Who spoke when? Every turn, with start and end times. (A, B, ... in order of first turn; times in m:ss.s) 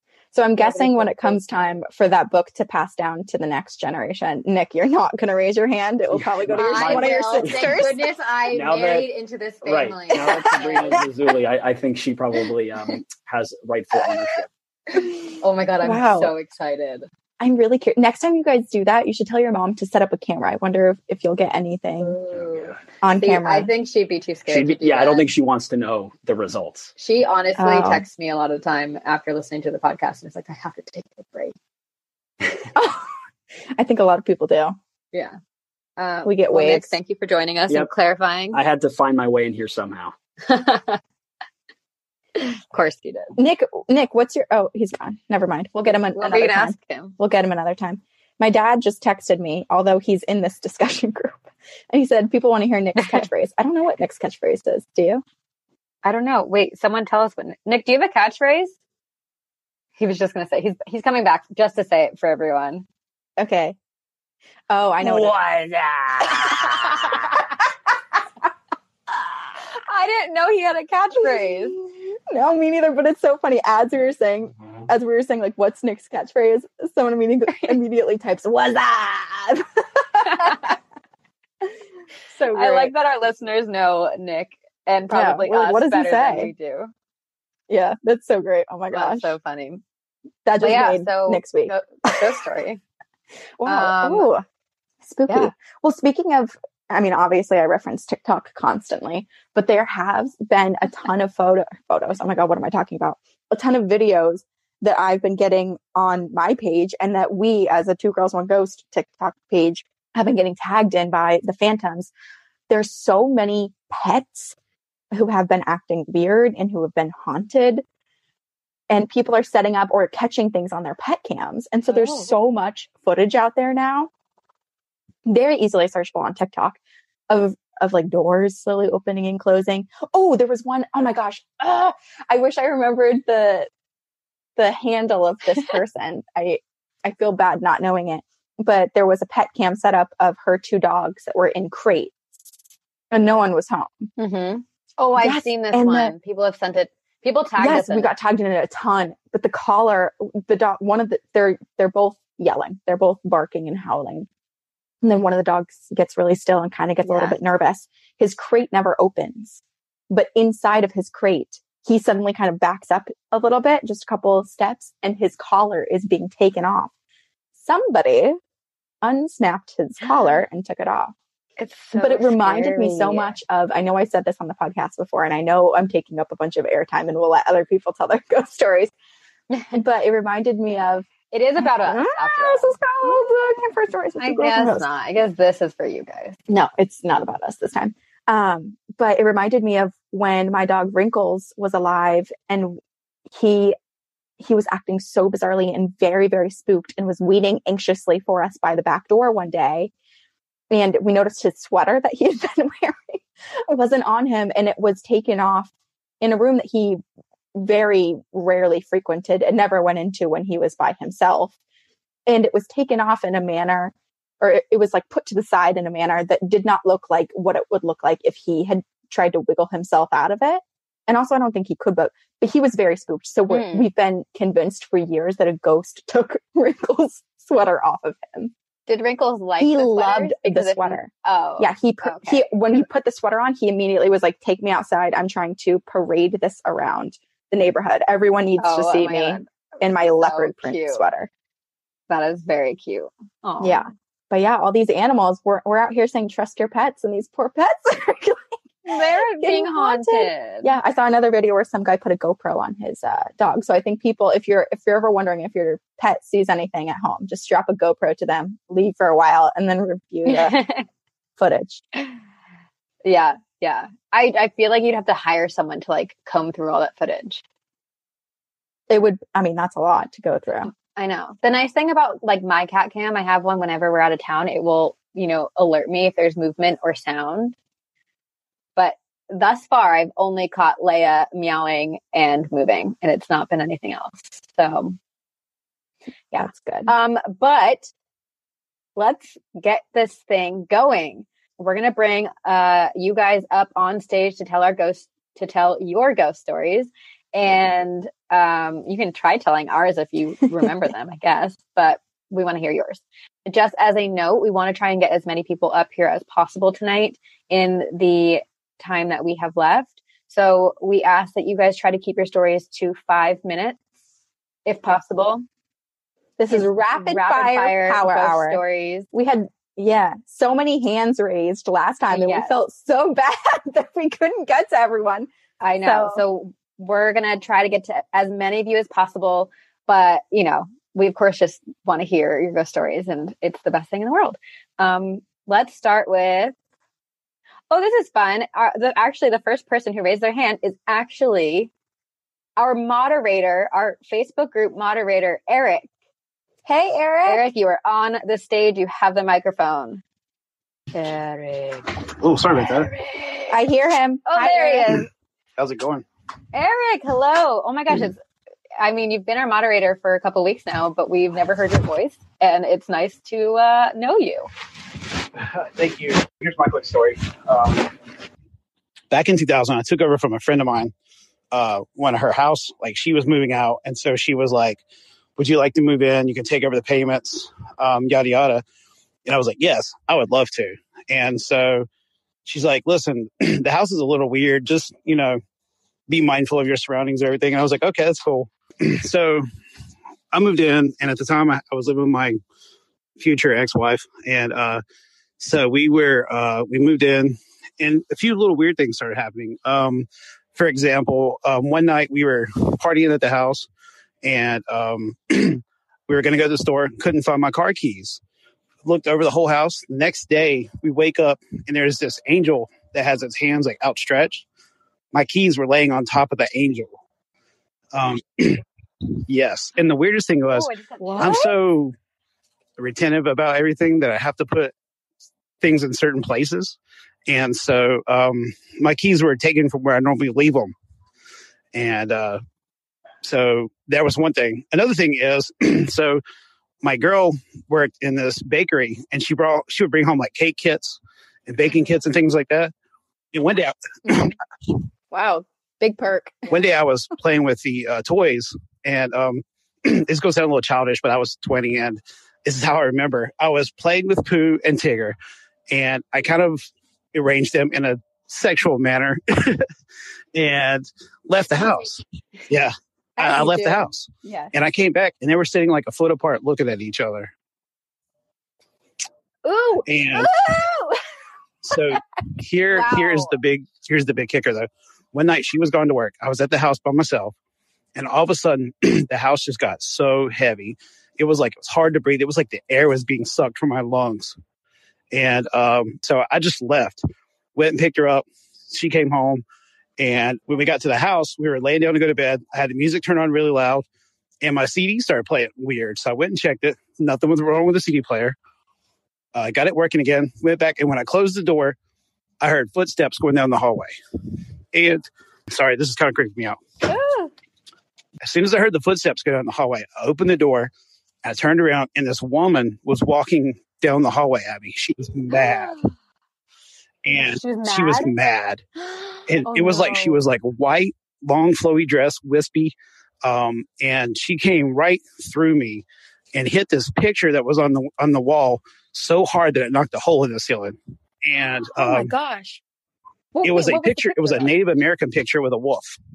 0:00.3-0:08.0 A
0:00.6-0:01.4 B
0:06.1-0:09.1 C
0:06.6-0:11.0 B
0:09.6-0:14.5 C
0:10.3-0:11.0 A
0:15.4-0:17.0 B
0:15.8-0:16.3 A
0:17.4-0:22.1 A
0:22.0-0:25.2 B
0:22.3-0:22.8 C
0:23.0-0:23.7 A
0:24.5-0:26.9 C
0:27.0-0:31.5 B
0:27.6-0:28.0 A
0:32.8-0:33.1 A
0:33.7-0:34.8 A
0:36.0-0:38.6 B
0:36.2-0:36.9 A
0:38.5-0:40.1 C
0:40.4-0:41.0 B
0:42.4-0:43.4 B
0:43.4-0:55.2 A
0:46.1-0:47.1 B
0:53.0-0:53.2 B
0:56.0-0:58.7 B
1:00.0-1:02.8 B
1:03.4-1:03.8 A
1:04.7-1:05.4 A
1:05.0-1:07.2 B
1:06.2-1:07.2 A
1:09.8-1:11.8 B
1:11.2-1:20.7 A
1:22.3-1:22.9 A
1:22.5-1:26.9 B
1:25.1-1:26.5 A
1:27.7-1:29.3 A
1:28.9-1:29.8 B
1:30.4-1:32.3 A
1:30.6-1:32.8 B
1:33.6-1:34.4 A
1:33.6-1:34.3 B
1:35.0-1:52.1 A
1:52.7-1:54.5 A
1:55.1-1:57.8 A
1:58.9-2:04.1 A
2:01.9-2:02.3 B
2:05.2-2:13.7 A
2:14.6-2:22.1 A
2:23.1-2:24.1 A
2:24.2-2:28.1 B
2:25.2-2:26.1 A
2:27.6-2:34.3 A
2:35.0-2:46.9 A
2:37.0-2:37.4 B
2:47.6-2:48.4 A
2:49.0-2:51.1 A
2:50.0-2:50.4 B
2:51.6-2:53.4 B
2:51.9-2:58.9 A
2:59.5-2:59.8 B
2:59.7-3:01.1 A
3:01.3-3:03.3 B
3:01.6-3:04.8 A
3:04.2-3:06.4 B
3:06.5-3:12.8 A
3:13.3-3:13.8 A
3:14.4-3:19.9 A
3:20.7-3:25.7 A
3:26.2-3:27.0 A
3:27.5-3:31.5 A
3:32.2-3:48.5 A
3:43.5-3:43.9 B
3:48.9-3:52.4 B
3:49.6-4:01.3 A
3:58.6-4:01.0 B
4:02.1-4:03.8 B
4:03.6-4:20.6 A
4:08.8-4:10.7 B
4:20.2-4:20.8 B
4:21.4-4:21.8 A
4:23.0-4:27.4 B
4:28.9-4:30.7 A
4:30.7-4:37.5 B
4:38.8-4:45.0 B
4:46.3-4:46.9 A
4:46.9-4:47.9 B
4:49.0-5:13.8 B
5:14.6-5:15.4 B
5:16.4-5:18.6 A
5:16.5-5:19.1 B
5:19.1-5:25.3 A
5:22.1-5:22.5 B
5:25.6-5:36.5 B
5:25.8-5:26.2 A
5:37.7-5:41.7 B
5:42.6-5:45.9 B
5:46.6-5:47.4 A
5:47.2-5:50.0 B
5:50.9-5:52.0 B
5:52.2-5:52.9 D
5:52.6-5:53.6 B
5:53.5-5:55.0 A
5:54.3-5:55.1 B
5:55.6-5:56.0 D
5:56.5-5:58.2 B
5:58.8-6:04.5 B
6:05.4-6:07.9 D
6:09.1-6:10.9 D
6:11.5-6:14.8 D
6:15.4-6:18.6 D
6:19.2-6:21.9 D
6:22.4-6:25.4 D
6:26.1-6:29.4 D
6:30.3-6:32.4 D
6:33.2-6:34.8 D
6:35.4-6:43.7 D
6:44.2-6:48.2 D
6:48.8-6:54.4 D
6:55.1-6:56.9 D
6:57.9-6:58.6 D
6:59.3-7:01.9 D
7:00.5-7:01.5 B
7:01.0-7:01.5 A
7:02.8-7:04.7 D
7:05.6-7:10.7 D
7:11.7-7:12.4 D
7:13.2-7:16.2 D
7:16.8-7:22.7 D
7:23.3-7:24.3 D
7:24.0-7:24.4 A
7:25.1-7:26.6 A
7:26.5-7:35.2 D
7:35.7-7:36.6 D
7:37.1-7:39.6 D
7:40.3-7:47.3 D
7:43.2-7:44.5 B
7:43.2-7:43.6 A
7:49.4-7:51.0 B
7:49.9-7:50.3 D
7:51.6-7:57.3 D
7:52.7-7:53.4 B
7:57.9-8:04.4 D
8:05.1-8:07.0 D
8:07.6-8:09.4 D
8:10.0-8:13.8 D
8:14.4-8:18.4 D
8:19.3-8:21.8 D
8:22.4-8:23.9 D
8:24.7-8:26.6 D
8:26.8-8:27.3 B
8:28.2-8:30.7 D
8:31.2-8:35.7 D
8:35.3-8:35.8 B
8:37.0-8:38.6 D
8:37.1-8:38.1 B
8:39.0-8:40.2 B
8:39.3-8:52.1 D
8:51.8-8:52.6 A
8:53.3-8:54.5 B
8:53.4-8:56.0 D